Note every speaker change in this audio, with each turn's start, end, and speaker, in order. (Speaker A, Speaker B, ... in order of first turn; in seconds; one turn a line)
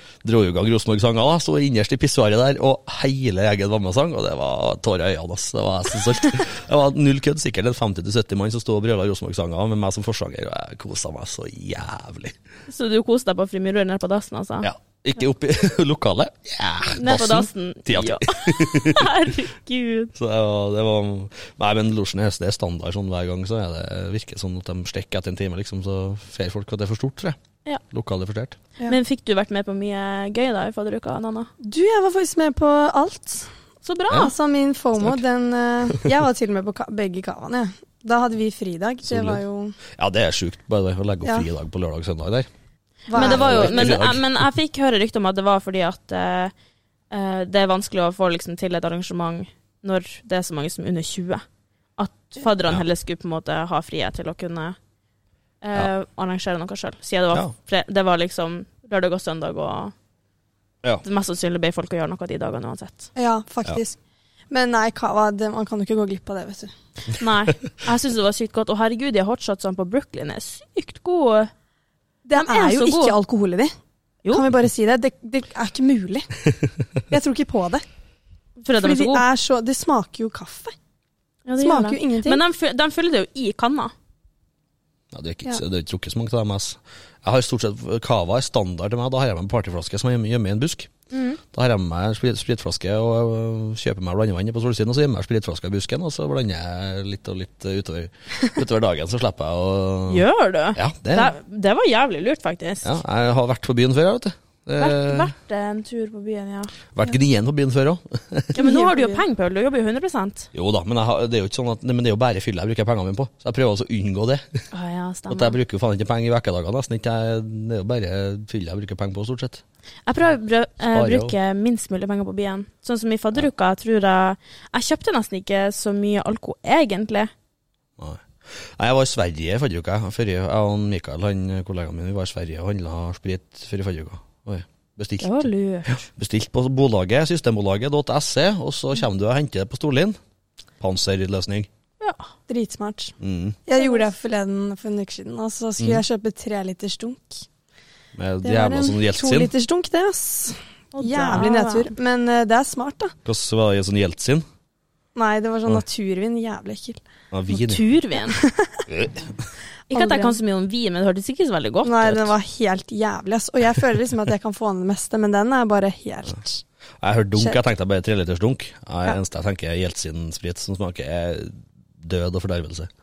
Speaker A: 0.2-12.4
Speaker B: 12.7-14.7
Speaker A: 14.6-19.1
Speaker B: 16.9-20.1
Speaker A: 20.1-27.4
Speaker A: 27.9-28.6
Speaker B: 28.8-31.5
Speaker C: 31.6-33.5
Speaker B: 33.8-34.3
Speaker C: 34.1-39.8
Speaker A: 39.0-39.4
Speaker A: 40.0-42.5
Speaker C: 43.1-44.0
Speaker B: 43.1-46.5
Speaker A: 43.1-44.3
Speaker B: 47.1-51.4
Speaker B: 52.0-54.8
Speaker B: 55.6-59.9
Speaker B: 61.0-63.1
Speaker C: 63.1-64.0
Speaker C: 64.5-66.7
Speaker B: 67.1-71.5
Speaker C: 72.2-73.7
Speaker B: 72.3-73.2
Speaker C: 74.3-76.3
Speaker C: 77.1-77.8
Speaker B: 78.6-79.2
Speaker C: 78.8-80.7
Speaker B: 81.5-83.9
Speaker C: 81.6-82.4
Speaker A: 85.1-90.9
Speaker B: 91.1-91.4
Speaker A: 91.5-101.3
Speaker B: 100.1-102.9
Speaker A: 102.8-105.3
Speaker B: 104.8-106.7
Speaker A: 106.9-108.6
Speaker B: 108.5-110.5
Speaker C: 108.5-109.2
Speaker A: 110.5-114.4
Speaker B: 114.7-115.6
Speaker A: 115.3-119.6
Speaker B: 120.1-127.3
Speaker A: 120.9-121.3
Speaker A: 128.0-140.2
Speaker B: 135.2-136.1
Speaker A: 140.8-141.7
Speaker B: 142.0-142.3
Speaker C: 142.5-143.1
Speaker A: 143.2-143.6
Speaker C: 143.7-147.4
Speaker A: 148.1-149.5
Speaker C: 148.4-153.1
Speaker B: 150.9-151.9
Speaker A: 153.2-154.4
Speaker C: 155.1-157.0
Speaker A: 157.3-157.8
Speaker B: 157.5-158.4
Speaker C: 158.3-158.9
Speaker A: 158.9-159.3
Speaker C: 159.9-160.4
Speaker B: 159.9-162.3
Speaker C: 161.8-166.6
Speaker A: 167.0-172.9